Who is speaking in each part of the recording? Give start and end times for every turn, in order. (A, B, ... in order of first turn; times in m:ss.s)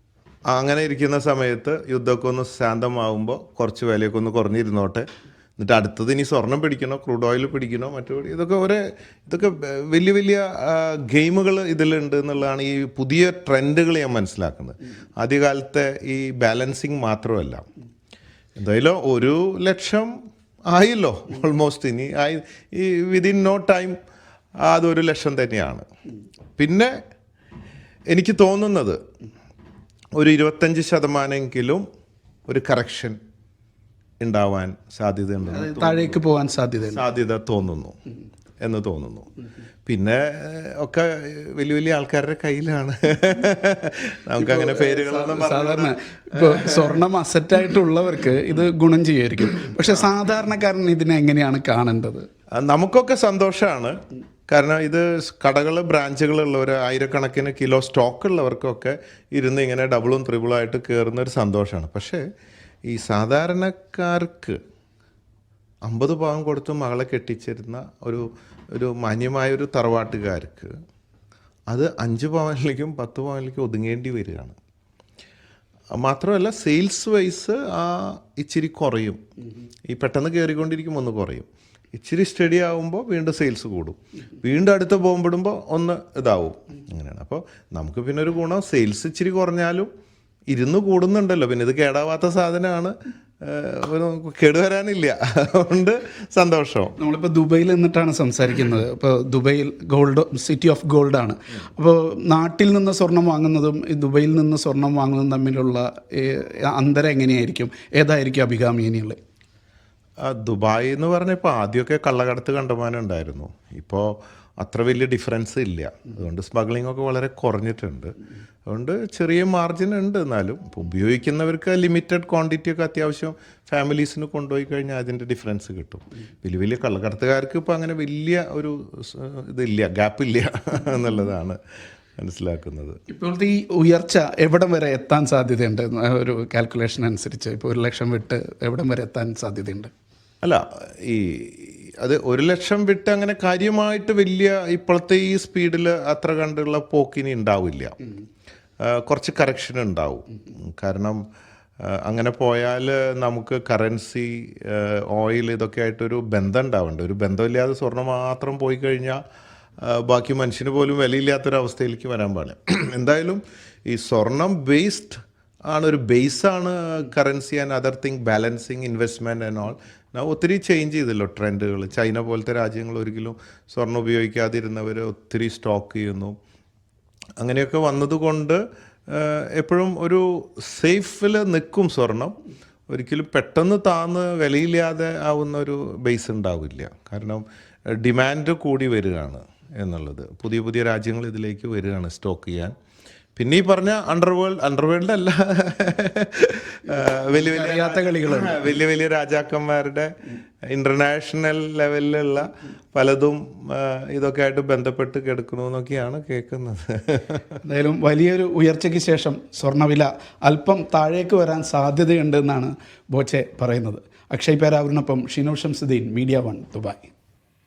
0:00.5-0:05.0 A
0:05.6-0:17.6 A
0:18.6-0:20.1 A
0:20.7-0:24.0 A
0:24.6-0:25.8 A
0:26.6-0:26.9 A
0:28.1-0:29.0 A
0:30.2-0:31.8 A
0:32.5-0:33.2 A
0:34.2-0:36.2 A
0:35.5-0:37.0 B
0:36.9-0:37.9 A
0:38.6-0:39.3 A
0:39.9-0:47.0 A
0:44.4-0:52.2 B
0:52.6-0:53.9 A
0:54.5-1:02.2 A
1:02.9-1:04.6 A
1:05.8-1:10.7 A
1:11.7-1:14.5 A
1:16.0-1:19.2 A
1:19.9-1:29.9 A
1:30.5-1:36.9 A
1:37.0-1:49.2 B
1:50.2-1:58.1 A
1:58.7-2:11.6 A
2:12.2-2:13.0 A
2:13.1-2:19.9 B
2:20.4-2:27.9 A
2:28.8-2:31.2 A
2:31.9-2:39.2 A
2:39.8-2:45.2 A
2:45.7-2:56.3 A
2:57.4-3:02.3 A
3:02.9-3:07.4 A
3:08.0-3:12.7 A
3:13.4-3:20.1 A
3:17.3-3:18.7 B
3:20.7-3:27.5 A
3:27.6-3:37.1 B